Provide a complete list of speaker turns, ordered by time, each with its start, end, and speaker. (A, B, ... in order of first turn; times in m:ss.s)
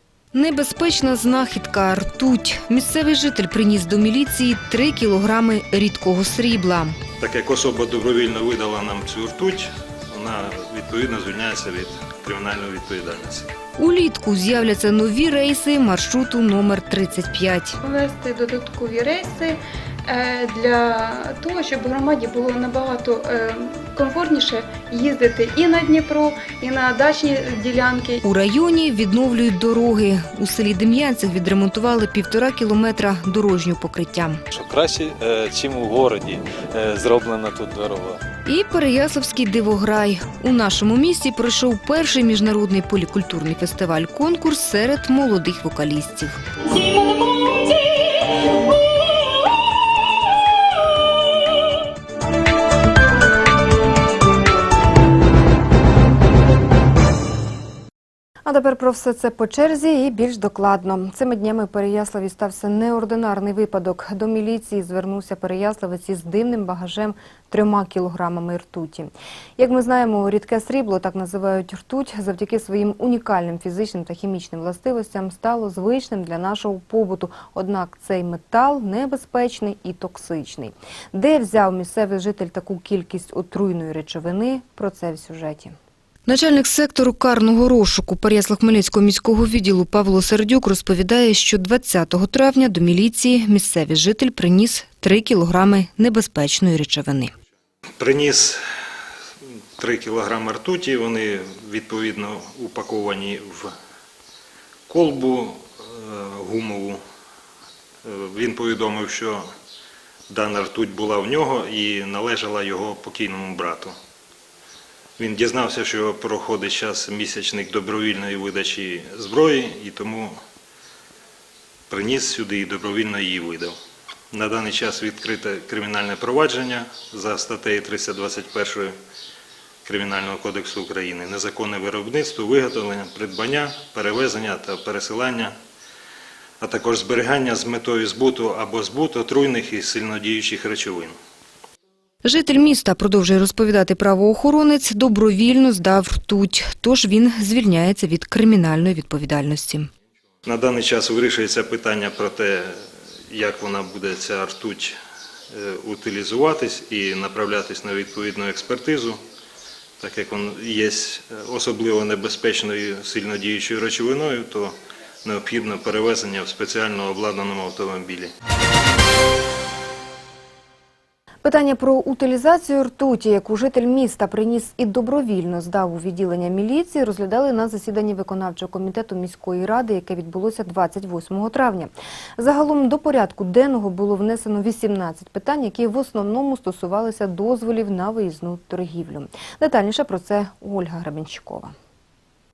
0:00.3-0:07.0 A
0:07.2-0:13.5 B
0:13.8-0:17.8 A
0:17.8-0:28.2 C
0:28.2-0:34.4 A
0:34.5-0:38.2 D
0:38.4-0:46.4 A
0:58.4-1:25.7 A
1:26.2-1:37.3 A
1:38.0-1:38.6 B
1:39.8-1:43.7 B
1:44.9-1:47.0 B
1:48.0-1:49.5 B
1:50.3-1:53.9 B
1:55.2-2:00.4 B
2:01.9-2:03.8 B
2:04.3-2:09.0 B
2:09.8-2:15.5 B
2:16.6-2:21.2 B
2:22.2-2:29.9 A
2:30.4-2:35.0 B
2:35.5-2:39.2 B
2:40.0-2:48.3 B
2:51.4-3:11.7 A